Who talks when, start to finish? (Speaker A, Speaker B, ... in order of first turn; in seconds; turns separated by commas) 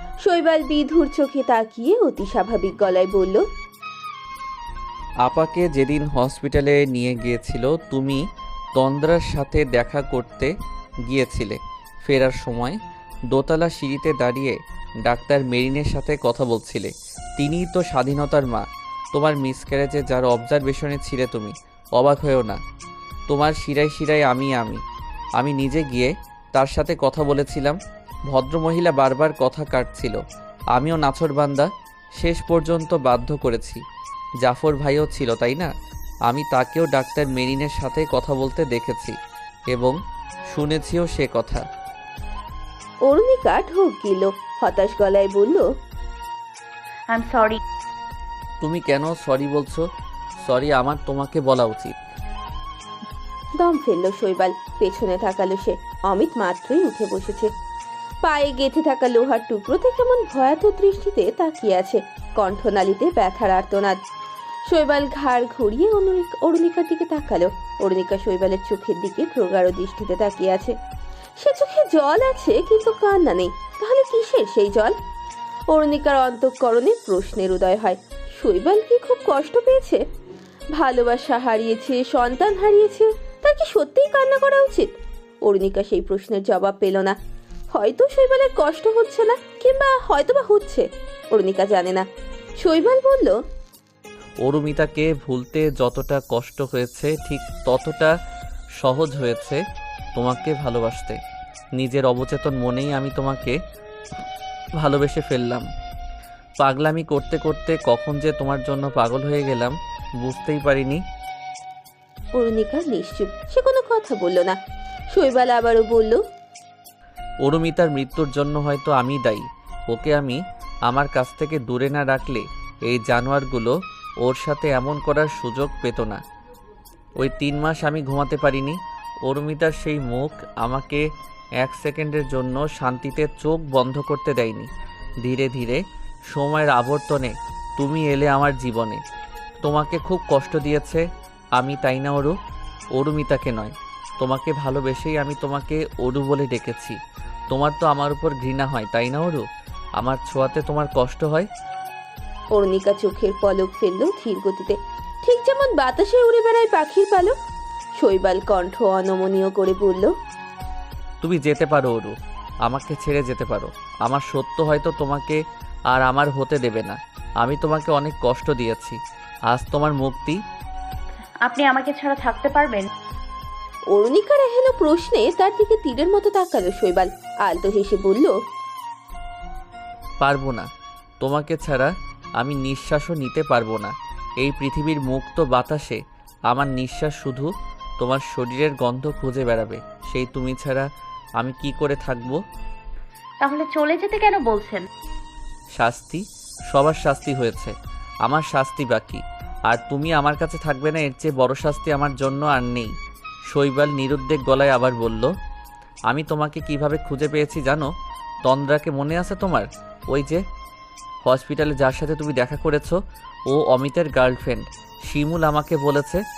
Speaker A: 0.2-3.4, Speaker B: 5.2-8.2, Speaker B: 8.8-10.5, Speaker B: 11.1-22.6, Speaker B: 23.3-24.8, Speaker B: 25.4-30.2, Speaker B: 30.7-33.8, Speaker B: 34.4-35.7, Speaker B: 36.3-39.1, Speaker B: 39.7-40.0, Speaker B: 40.5-41.6, Speaker A: 43.1-45.6, Speaker C: 47.1-47.6, Speaker B: 48.6-49.9, Speaker B: 50.4-52.0, Speaker A: 53.6-57.5, Speaker A: 58.2-64.0, Speaker A: 64.7-70.8, Speaker A: 71.4-75.0, Speaker A: 75.7-80.0, Speaker A: 80.7-87.2, Speaker A: 87.7-92.0, Speaker A: 92.6-93.4, Speaker B: 94.4-98.1, Speaker B: 98.8-99.6, Speaker B: 100.2-101.2, Speaker B: 101.8-103.6, Speaker B: 104.8-105.7, Speaker B: 106.6-111.0, Speaker A: 112.3-114.6, Speaker A: 115.1-116.2, Speaker B: 117.4-126.2, Speaker B: 127.2-131.0, Speaker B: 131.6-134.7, Speaker B: 135.2-135.8, Speaker B: 136.3-139.0, Speaker B: 139.6-141.1, Speaker B: 141.6-142.3, Speaker B: 142.9-147.0, Speaker B: 147.5-149.4, Speaker B: 150.0-151.5, Speaker A: 152.5-157.3, Speaker A: 158.0-160.1, Speaker B: 161.2-170.4, Speaker C: 171.4-172.9, Speaker A: 173.9-178.3, Speaker B: 180.2-180.7, Speaker B: 181.2-190.9, Speaker B: 191.4-192.4, Speaker C: 193.4-194.8, Speaker B: 195.8-197.7, Speaker B: 198.2-202.9, Speaker B: 203.5-205.3, Speaker B: 206.1-207.9, Speaker B: 208.4-210.4, Speaker B: 211.2-216.2